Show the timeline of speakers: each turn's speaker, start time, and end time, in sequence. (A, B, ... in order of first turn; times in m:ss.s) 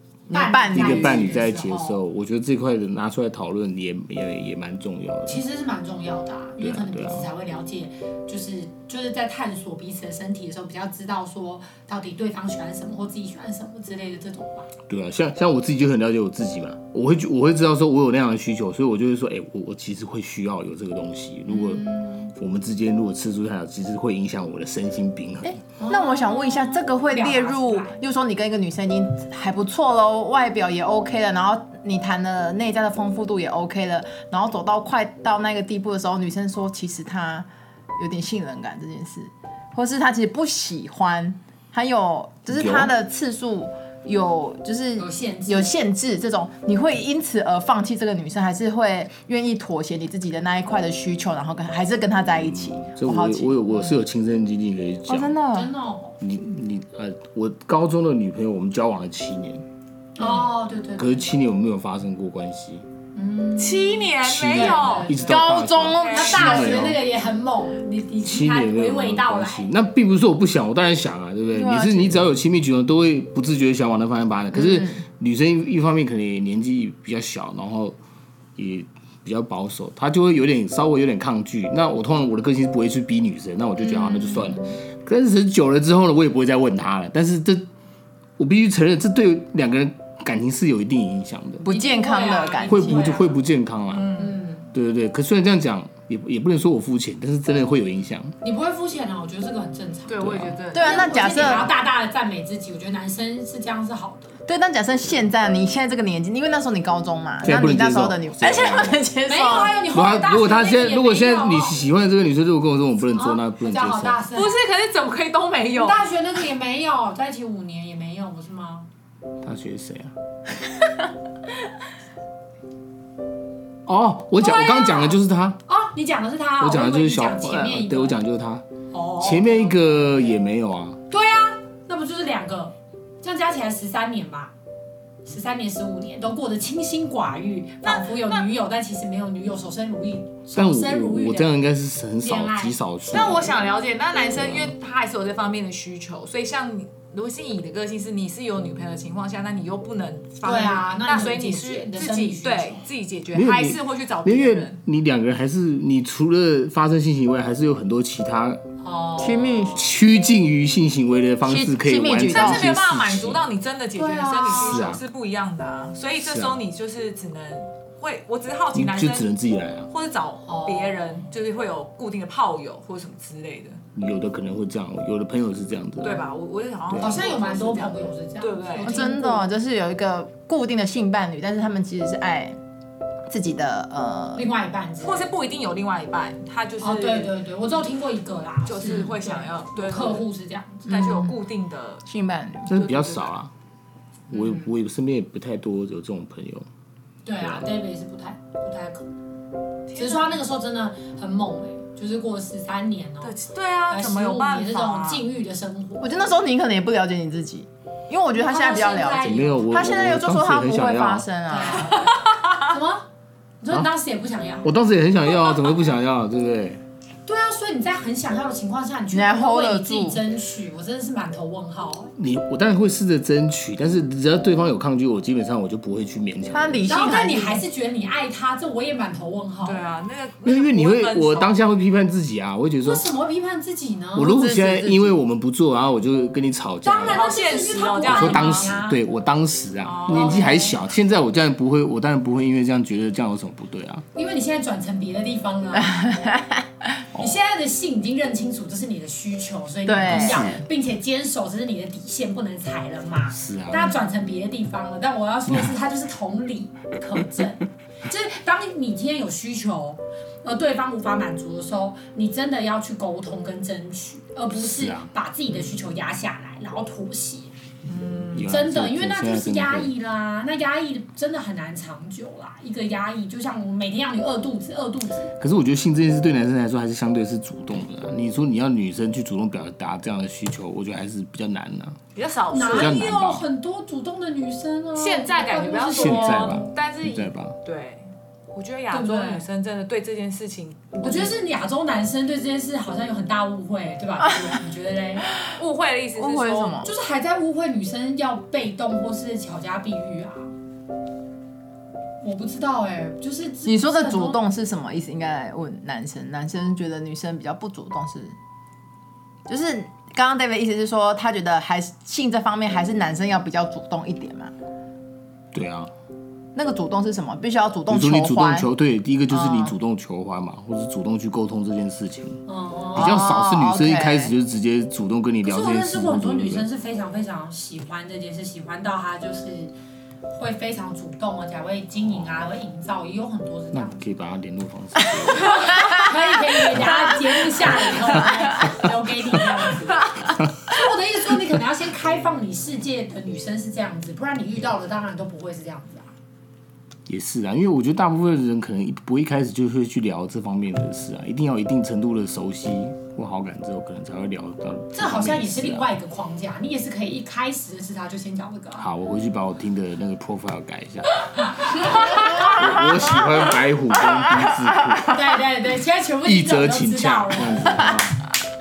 0:00.3-0:01.4 A
0:00.3-0:02.0 B
0:00.7-0:05.4 C
0:05.3-0:14.7 B
0:06.6-0:07.3 C
0:14.9-0:25.6 C
0:21.5-0:22.3 B
0:25.4-0:53.8 A
0:25.8-0:28.0 B
0:42.5-0:42.9 C
0:45.0-0:45.7 B
0:52.4-0:55.4 C
0:55.1-0:55.7 A
0:55.5-0:56.2 B
0:56.2-0:59.6 C
1:00.2-1:01.3 B
1:01.0-1:02.9 C
1:03.2-1:05.5 B
1:03.6-1:05.1 D
1:04.2-1:07.0 C
1:05.2-1:07.0 A
1:06.0-1:06.4 D
1:06.1-1:09.7 B
1:08.2-1:18.0 C
1:11.5-1:12.3 A
1:14.5-1:15.0 A
1:18.6-1:27.7 C
1:24.0-1:24.6 B
1:28.4-1:31.7 C
1:31.6-1:33.2 A
1:31.7-1:33.3 B
1:32.7-1:34.1 C
1:33.9-1:34.4 D
1:34.2-1:34.7 B
1:34.7-1:38.4 C
1:38.4-1:44.4 B
1:40.1-1:41.7 D
1:40.2-1:40.6 C
1:40.7-1:41.7 A
1:44.5-1:49.8 A
1:47.4-1:49.0 C
1:49.3-1:51.8 B
1:49.9-1:54.2 C
1:53.1-1:54.5 B
1:54.3-1:56.1 D
1:55.8-1:58.9 B
1:59.4-2:00.1 C
2:03.9-2:05.6 C
2:04.4-2:08.2 B
2:06.6-2:08.7 C
2:08.9-2:10.1 B
2:09.2-2:11.0 C
2:11.1-2:14.5 B
2:15.2-2:21.6 B
2:17.8-2:18.5 D
2:20.6-2:23.6 C
2:22.2-2:23.3 B
2:23.1-2:34.8 D
2:24.3-2:24.7 C
2:30.4-2:32.8 B
2:33.3-2:38.6 C
2:38.8-2:39.9 B
2:39.2-2:39.9 A
2:39.8-2:43.4 C
2:41.5-2:42.6 A
2:42.3-2:49.3 D
2:44.0-2:44.8 B
2:44.5-2:45.0 C
2:46.2-2:46.6 C
2:48.8-2:49.9 C
2:49.9-2:53.8 D
2:50.4-2:51.2 B
2:54.0-2:56.3 C
2:56.0-2:59.1 D
2:56.9-2:57.2 C
2:57.0-2:59.5 B
2:58.8-3:02.6 A
3:03.3-3:04.5 A
3:04.3-3:05.3 B
3:05.0-3:07.4 D
3:06.8-3:11.0 B
3:08.7-3:10.3 D
3:10.9-3:12.0 D
3:10.9-3:11.4 A
3:12.1-3:12.7 A
3:12.7-3:13.5 C
3:12.7-3:13.3 D
3:14.3-3:16.7 C
3:14.3-3:14.6 B
3:17.2-3:19.2 B
3:17.4-3:17.7 C
3:19.9-3:20.4 D
3:20.0-3:23.3 B
3:23.2-3:25.2 D
3:23.9-3:26.3 B
3:26.0-3:32.0 A
3:28.4-3:29.9 B
3:29.2-3:31.3 C
3:31.5-3:33.1 B
3:33.6-3:34.7 B
3:34.6-3:36.8 C
3:35.3-3:35.7 B
3:37.3-3:42.1 B
3:39.1-3:40.2 A
3:42.2-3:47.1 C
3:46.5-3:47.6 A
3:46.9-3:49.8 B
3:49.6-3:51.6 D
3:50.4-3:53.1 C
3:52.8-3:54.4 B
3:54.2-3:57.2 C
3:54.2-3:55.2 A
3:56.8-3:59.0 B
3:57.0-3:58.7 D
3:58.0-4:04.0 C
3:59.8-4:00.7 D
4:00.1-4:00.8 B
4:04.2-4:06.0 B
4:05.7-4:06.7 A
4:07.2-4:27.5 B
4:09.9-4:10.6 A
4:10.0-4:10.5 C
4:13.3-4:14.0 C
4:24.6-4:25.1 C
4:27.9-4:28.5 D
4:28.3-4:29.9 C
4:28.5-4:35.4 B
4:35.4-4:42.0 C
4:42.2-4:43.0 D
4:42.5-4:46.7 B
4:42.6-4:43.4 C
4:45.0-4:51.3 D
4:46.0-4:47.6 C
4:48.9-4:49.4 B
4:51.0-4:55.3 B
4:55.5-4:56.9 D
4:56.2-4:56.9 A
4:56.8-5:00.5 B
5:02.2-5:04.4 B
5:03.6-5:08.4 A
5:09.5-5:14.5 A
5:15.5-5:15.9 C
5:16.6-5:18.7 A
5:17.9-5:22.4 C
5:19.3-5:19.7 A
5:22.5-5:23.3 B
5:22.9-5:26.7 C
5:23.0-5:24.3 A
5:25.4-5:29.7 B
5:30.3-5:34.0 B
5:33.7-5:36.0 C
5:35.4-5:46.1 B
5:36.8-5:37.1 C
5:37.7-5:38.3 C
5:47.1-5:55.9 C
5:54.9-5:58.9 B
5:58.8-6:05.2 C
6:01.7-6:02.6 B
6:02.5-6:03.4 A
6:04.4-6:05.2 A
6:05.1-6:08.0 B
6:06.2-6:08.2 C